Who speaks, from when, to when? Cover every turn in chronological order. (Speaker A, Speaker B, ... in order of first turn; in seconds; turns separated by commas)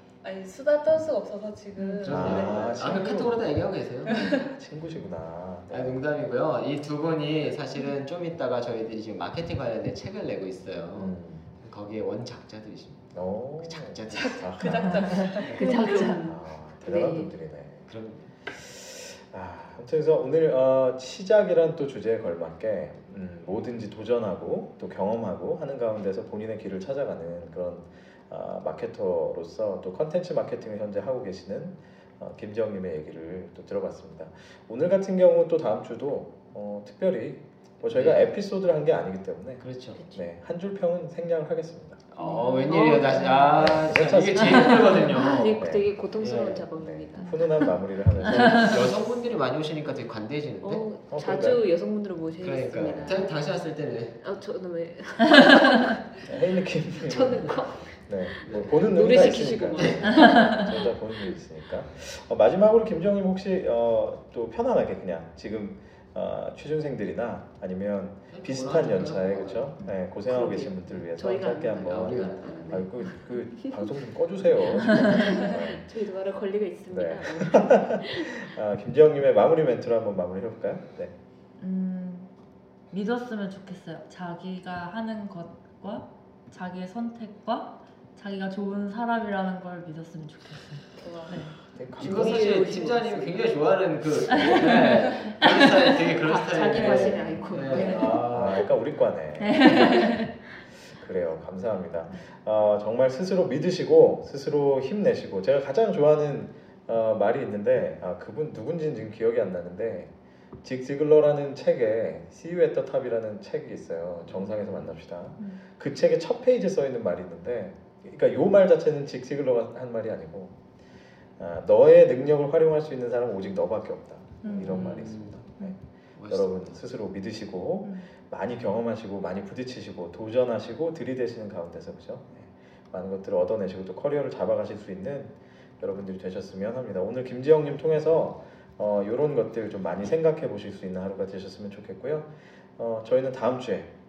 Speaker A: 0.2-3.2, Speaker B: 1.8-2.1, Speaker C: 2.0-4.3, Speaker D: 2.1-3.4, Speaker A: 4.1-4.5, Speaker D: 4.1-6.0, Speaker C: 5.7-14.6, Speaker D: 10.9-11.5, Speaker D: 13.1-15.1, Speaker A: 14.1-16.1, Speaker B: 14.7-16.3, Speaker E: 15.5-17.3, Speaker D: 16.2-17.9, Speaker C: 17.9-18.3, Speaker D: 18.5-42.0, Speaker C: 37.9-38.2, Speaker C: 39.6-40.1, Speaker C: 42.1-45.6, Speaker E: 42.2-43.7, Speaker D: 43.6-45.0, Speaker E: 44.6-47.7, Speaker D: 45.6-45.9, Speaker C: 46.2-46.7, Speaker D: 46.7-48.9, Speaker C: 48.2-50.9, Speaker E: 50.6-53.4, Speaker D: 51.1-51.6, Speaker C: 52.4-54.2, Speaker E: 54.2-56.0, Speaker D: 56.2-75.8, Speaker E: 57.0-60.7, Speaker C: 58.5-60.1, Speaker B: 60.2-60.7, Speaker C: 68.3-69.7, Speaker E: 70.3-73.8, Speaker C: 71.7-72.9, Speaker E: 74.7-78.5, Speaker D: 76.9-81.2, Speaker B: 81.6-82.3, Speaker B: 82.9-91.6, Speaker A: 91.0-91.5, Speaker D: 91.8-92.6, Speaker C: 92.0-98.7, Speaker E: 92.0-93.5, Speaker B: 94.3-96.0, Speaker E: 95.9-98.3, Speaker B: 96.5-98.2, Speaker D: 98.3-100.1, Speaker B: 99.4-100.3, Speaker D: 100.9-110.1, Speaker D: 110.6-120.6, Speaker C: 114.3-114.9, Speaker D: 121.4-143.9, Speaker B: 124.4-124.9, Speaker C: 124.5-125.4, Speaker C: 126.2-126.7, Speaker B: 127.8-128.1